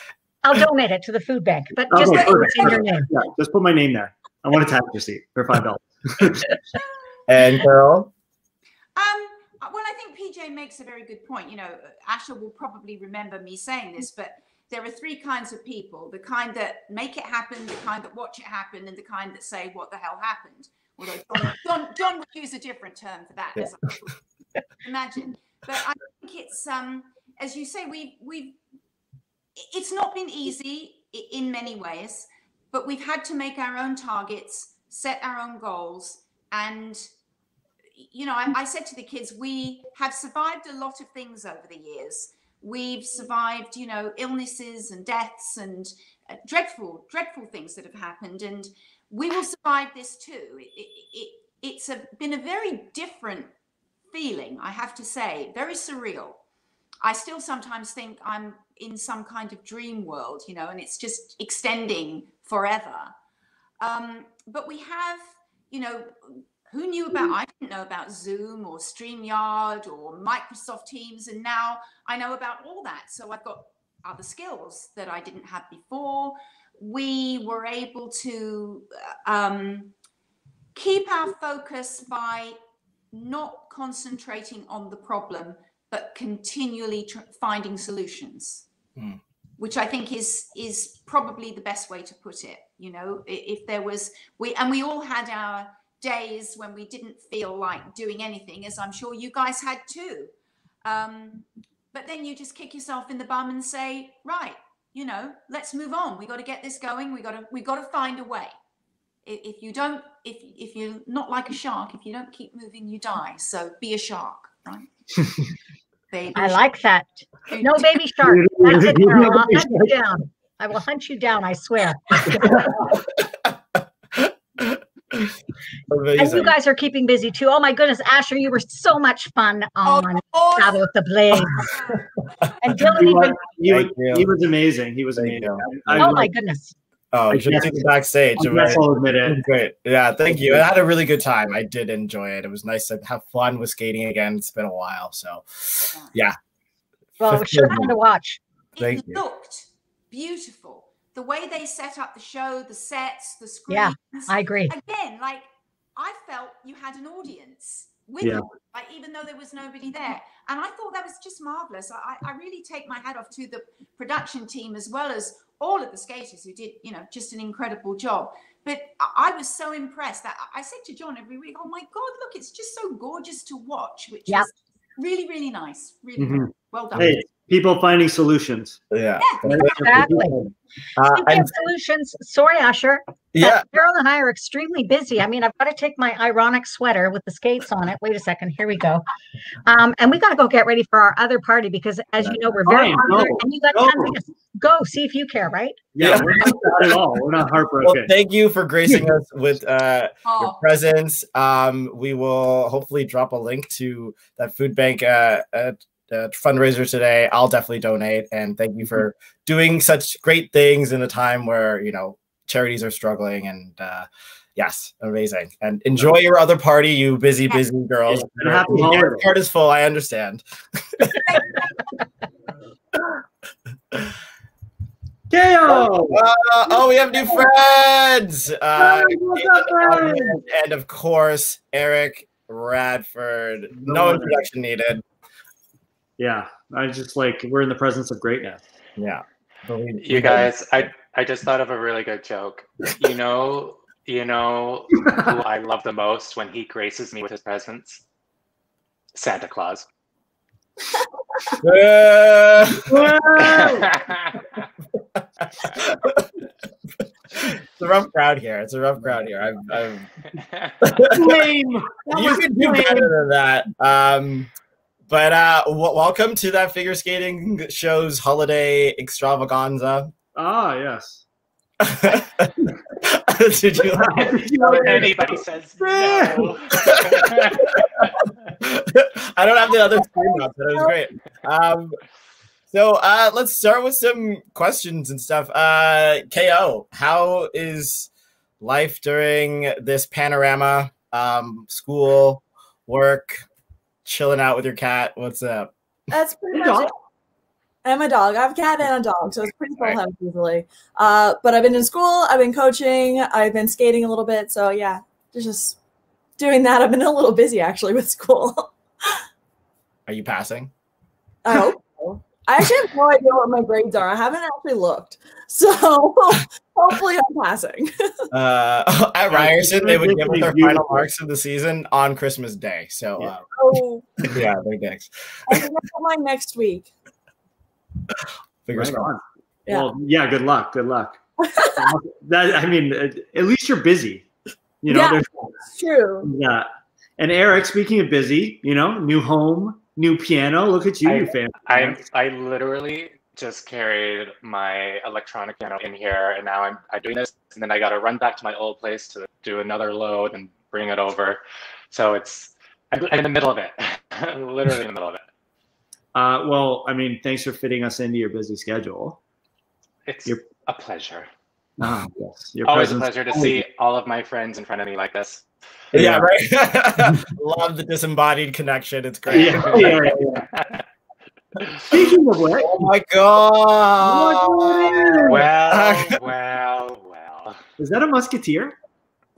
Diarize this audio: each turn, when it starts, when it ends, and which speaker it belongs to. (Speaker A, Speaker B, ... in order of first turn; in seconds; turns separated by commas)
Speaker A: 0.4-3.1, Speaker B: 1.9-6.5, Speaker C: 2.1-2.5, Speaker D: 7.3-8.1, Speaker C: 8.9-24.1, Speaker C: 24.8-28.6, Speaker C: 29.6-37.1, Speaker C: 38.0-53.5, Speaker C: 54.1-56.4, Speaker C: 57.0-63.1, Speaker C: 63.8-79.9, Speaker C: 80.8-82.6, Speaker C: 83.1-88.7, Speaker C: 89.6-100.3, Speaker C: 100.8-108.5, Speaker C: 109.2-114.9, Speaker C: 116.1-116.6, Speaker A: 116.3-122.6, Speaker C: 117.5-118.0, Speaker B: 118.2-120.0, Speaker B: 122.4-122.8, Speaker D: 124.1-125.3, Speaker D: 125.9-126.5, Speaker A: 126.2-131.8, Speaker C: 129.8-130.8, Speaker A: 132.6-133.4, Speaker B: 132.8-136.3, Speaker D: 133.7-134.3, Speaker D: 135.2-136.3, Speaker A: 136.0-136.8, Speaker D: 137.1-146.4, Speaker B: 137.3-137.9, Speaker B: 138.4-139.4, Speaker A: 147.2-148.4, Speaker D: 147.2-147.9, Speaker C: 148.8-177.2, Speaker D: 148.8-149.2, Speaker A: 153.7-154.7, Speaker B: 176.2-178.8, Speaker D: 178.9-179.9, Speaker C: 179.2-179.5, Speaker B: 179.4-180.5, Speaker A: 179.6-180.3, Speaker D: 181.0-181.5, Speaker A: 181.1-189.1, Speaker D: 183.3-183.7, Speaker A: 189.7-195.8, Speaker B: 192.2-194.2, Speaker B: 195.9-198.1, Speaker D: 196.0-196.9, Speaker D: 197.8-220.4, Speaker C: 200.2-200.6, Speaker B: 218.1-219.3, Speaker D: 221.0-221.4, Speaker B: 225.3-226.2, Speaker D: 226.1-235.0, Speaker B: 228.8-230.5, Speaker B: 233.8-234.4, Speaker B: 236.2-238.6, Speaker D: 239.0-240.8, Speaker E: 240.0-248.0, Speaker B: 245.0-245.4, Speaker E: 249.1-249.9, Speaker D: 251.6-252.9, Speaker B: 252.8-253.9, Speaker E: 253.4-254.4, Speaker D: 255.6-256.2, Speaker D: 257.4-260.0, Speaker E: 260.4-260.7, Speaker D: 260.9-261.4, Speaker B: 261.1-263.1, Speaker D: 262.1-264.5, Speaker D: 265.1-270.1, Speaker B: 270.4-271.2, Speaker D: 271.8-275.1, Speaker B: 273.9-276.6, Speaker E: 274.6-277.8, Speaker D: 276.8-277.6, Speaker D: 278.6-282.0, Speaker D: 282.7-288.1, Speaker D: 288.6-293.4, Speaker D: 294.0-295.7, Speaker F: 296.1-296.9, Speaker B: 296.5-296.9, Speaker F: 297.8-305.8, Speaker F: 306.4-308.7, Speaker D: 310.1-310.7, Speaker F: 311.4-317.9, Speaker D: 318.3-323.4, Speaker B: 319.3-321.1, Speaker F: 323.5-324.3, Speaker D: 324.3-325.1, Speaker F: 325.5-326.9, Speaker D: 328.7-329.1, Speaker B: 328.7-331.2, Speaker F: 331.4-331.9, Speaker B: 331.8-334.2, Speaker B: 334.8-335.6, Speaker F: 334.9-336.3, Speaker B: 336.2-342.0, Speaker E: 341.0-355.2, Speaker B: 356.1-359.2, Speaker E: 360.1-361.3, Speaker B: 361.8-363.6, Speaker E: 362.6-365.5, Speaker D: 365.9-370.1, Speaker B: 366.0-366.2, Speaker B: 369.3-370.5, Speaker E: 369.3-370.8, Speaker B: 371.9-372.9, Speaker D: 372.6-376.1, Speaker B: 374.0-375.5, Speaker E: 375.2-377.6, Speaker B: 377.8-378.8